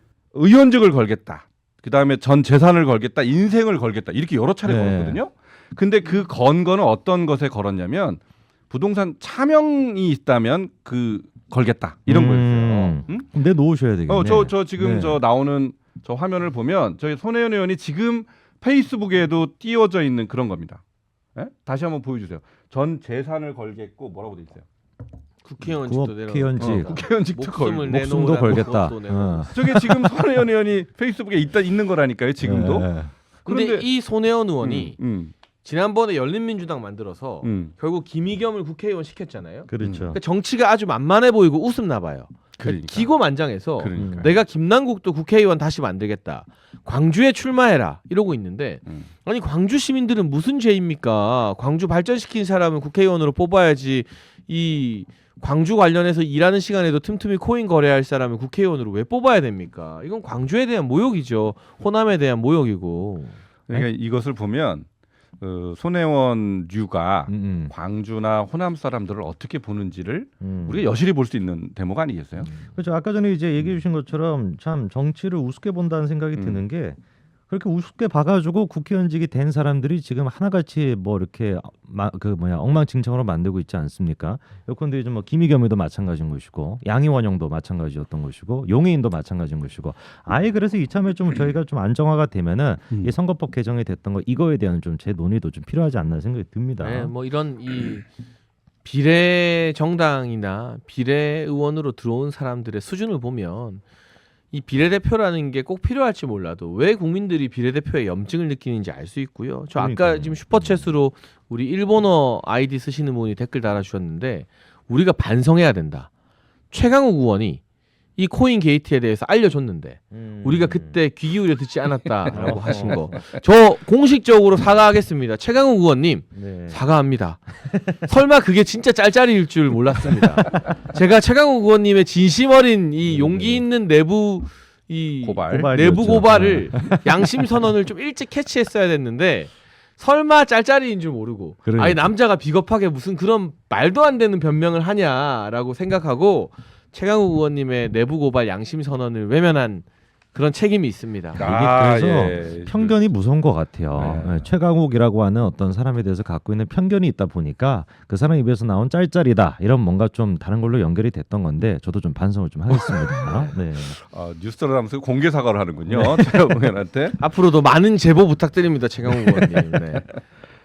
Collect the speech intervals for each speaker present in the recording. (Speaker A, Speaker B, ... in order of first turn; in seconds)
Speaker A: 0.3-13.3, 14.1-20.8, 21.4-24.6, 26.6-28.7, 29.5-33.9, 34.6-35.3, 37.4-37.7, 39.8-40.2, 42.6-43.1, 43.8-44.4, 63.7-64.9, 65.4-72.5, 76.3-76.7, 135.2-135.8, 151.4-153.0, 153.9-154.5, 162.9-167.2
Speaker B: 4.7-5.2, 12.1-15.2, 25.7-27.0, 27.9-30.1, 32.4-33.1, 39.7-40.2, 44.0-44.3, 67.3-67.7, 70.4-70.8, 72.5-97.1, 109.8-110.9, 120.1-121.0, 122.3-123.2, 126.3-126.8, 133.1-133.7, 135.5-137.3, 141.7-142.0, 151.4-164.0, 165.9-166.2
Speaker C: 25.4-29.5, 33.5-35.0, 35.6-63.4, 96.8-98.1, 98.8-103.8, 104.5-116.1, 116.7-117.6, 118.2-151.4, 167.2-170.1